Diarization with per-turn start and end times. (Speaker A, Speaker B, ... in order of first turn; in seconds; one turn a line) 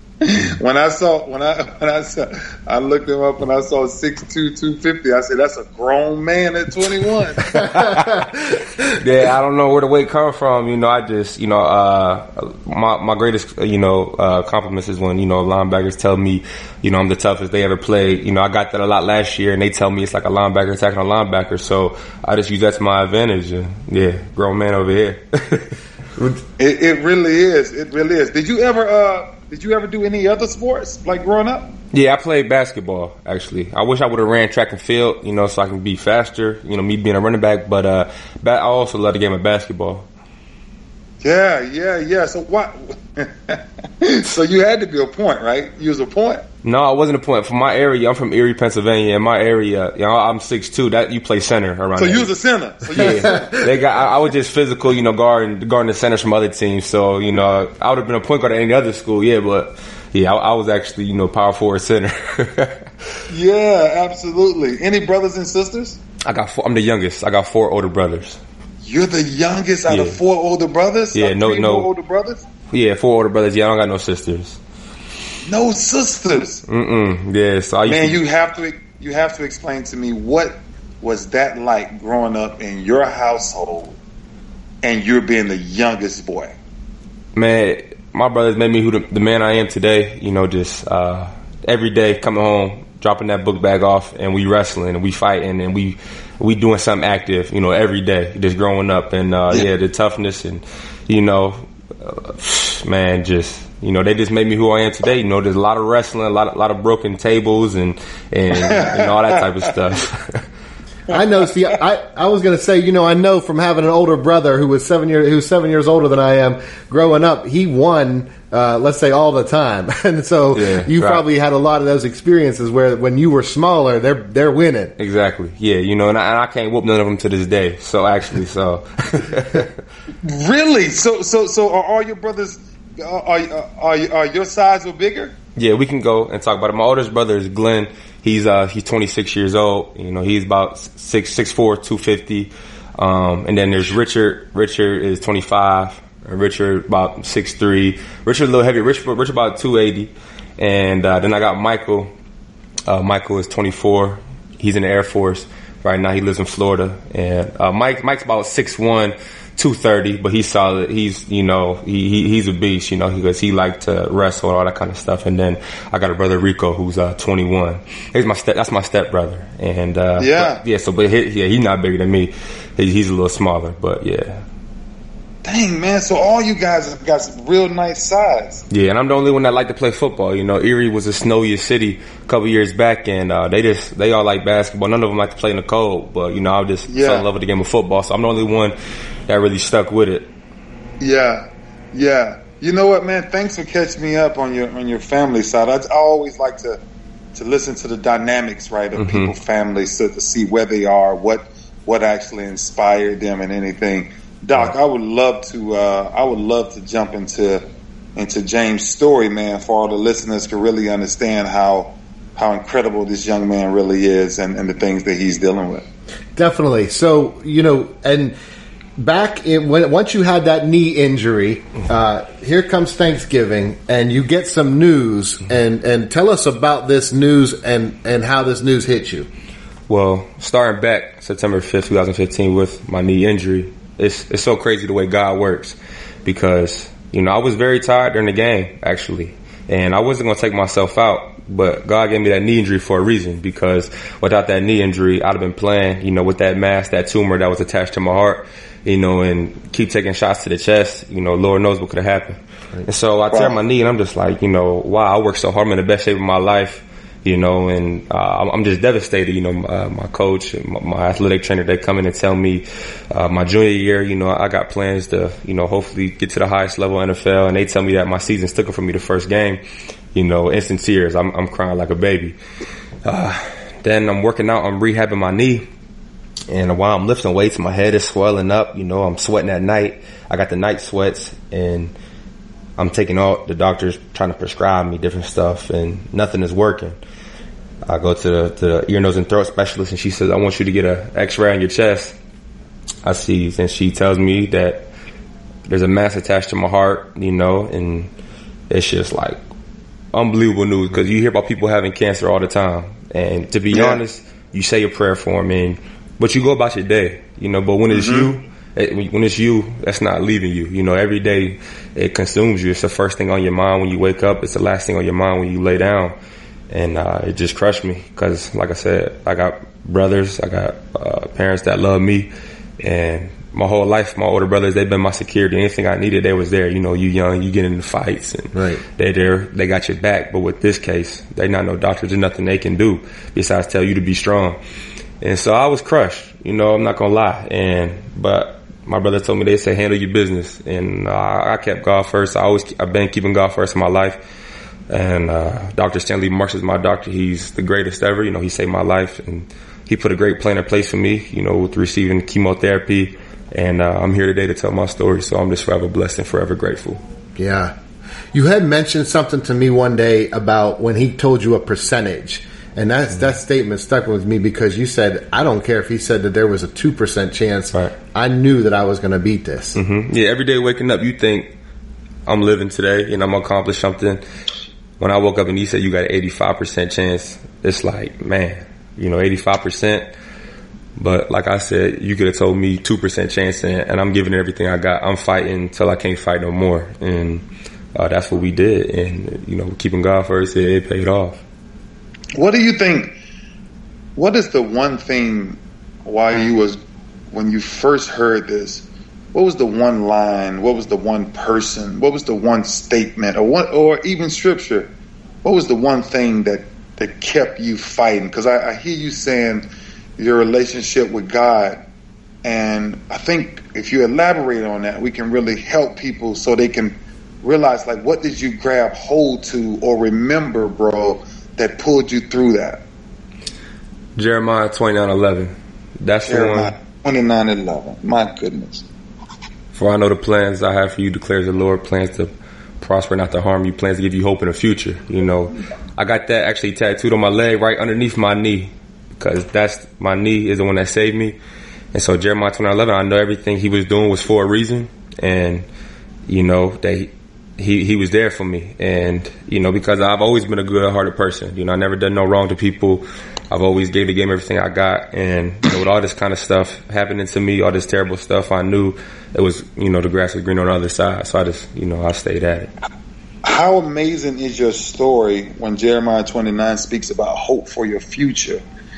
Speaker A: 0.2-7.5
Speaker B: 7.5-8.3
Speaker C: 7.5-8.2
Speaker B: 8.9-25.7
Speaker A: 26.6-31.7
Speaker B: 31.9-40.1
Speaker A: 41.2-46.4
Speaker B: 46.6-52.3
Speaker A: 52.0-53.5
Speaker B: 52.9-62.9
Speaker C: 53.1-53.5
Speaker A: 63.3-66.0
Speaker B: 66.2-68.4
Speaker A: 68.8-72.4
Speaker B: 69.9-70.2
Speaker B: 71.1-71.9
Speaker B: 72.7-74.6
Speaker A: 75.4-76.6
Speaker B: 76.7-78.2
Speaker A: 77.8-84.0
Speaker A: 84.8-86.5
Speaker B: 87.3-110.4
Speaker A: 108.6-109.4
Speaker C: 111.1-124.9
Speaker B: 120.5-121.2
Speaker B: 125.0-129.7
Speaker A: 130.2-135.3
Speaker B: 135.6-152.1
Speaker B: 152.9-174.4
Speaker A: 170.2-170.6
Speaker A: 175.4-178.6
Speaker B: 178.7-188.7
Speaker A: 186.9-187.2
Speaker B: 189.3-190.3
Speaker A: 191.0-196.8
Speaker A: 197.3-207.6
Speaker B: 199.0-199.3
Speaker A: 208.2-215.8
Speaker C: 216.3-218.3
Speaker C: 219.0-229.3
Speaker B: 229.9-269.6
Speaker A: 253.3-253.6
Speaker B: 270.1-272.4
Speaker B: 273.0-275.7
Speaker B: 276.5-281.9
Speaker B: 282.8-286.9
Speaker B: 287.9-292.1
Speaker B: 293.0-294.9
Speaker B: 295.7-298.1
Speaker B: 298.7-299.4
Speaker B: 300.1-316.1
Speaker A: 303.7-304.0
Speaker A: 307.9-308.3
Speaker B: 316.7-334.6
Speaker C: 328.5-328.8
Speaker B: 335.2-344.2
Speaker B: 344.9-357.0
Speaker C: 357.4-357.7
Speaker C: 358.3-369.8
Speaker B: 369.7-371.5
Speaker B: 372.3-374.2
Speaker B: 375.0-380.1
Speaker B: 381.0-387.4
Speaker B: 387.9-391.4
Speaker A: 392.3-393.1
Speaker A: 394.1-396.8
Speaker A: 397.3-404.9
Speaker A: 405.4-409.7
Speaker A: 410.2-411.8
Speaker A: 412.4-422.8
Speaker B: 424.1-426.7
Speaker A: 426.2-428.8
Speaker B: 429.7-441.4
Speaker B: 441.9-445.7
Speaker B: 446.3-462.7
Speaker A: 463.4-468.6